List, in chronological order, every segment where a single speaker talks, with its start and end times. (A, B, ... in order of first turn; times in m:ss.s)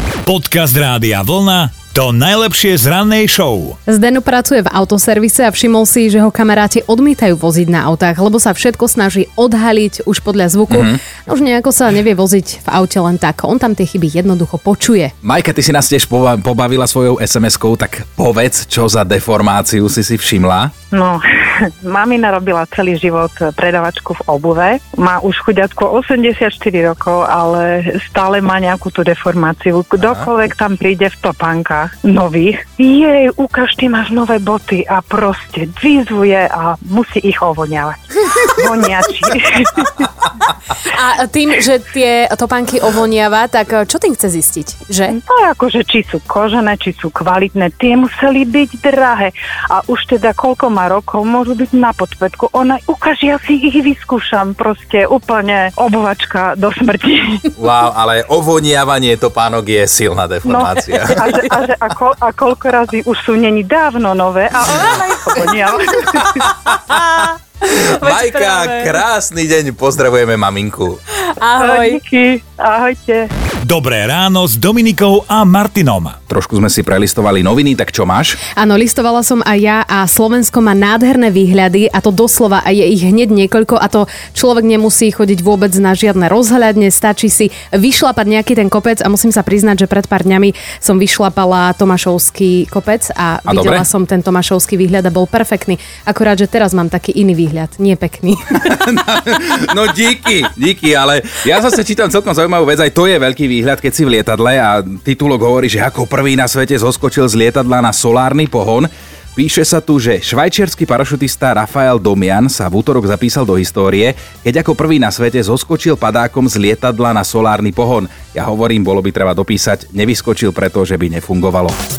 0:00.2-0:03.8 A
0:03.9-0:15.1 B
0:10.7-0:11.0 C
0:15.2-0:20.7 C
0:20.9-0:40.1 D
0:40.8-0:45.2 B
0:45.2-0:57.5 D
0:57.6-1:01.5 C
1:00.4-1:06.5 D
1:06.7-1:07.0 C
1:07.7-1:11.0 C
1:08.1-1:08.8 B
1:11.4-1:12.0 B
1:11.6-1:13.3 D
1:13.6-1:16.2 A
1:16.3-1:18.4 C
1:18.6-1:38.6 B
1:33.4-1:33.9 C
1:38.6-2:01.8 C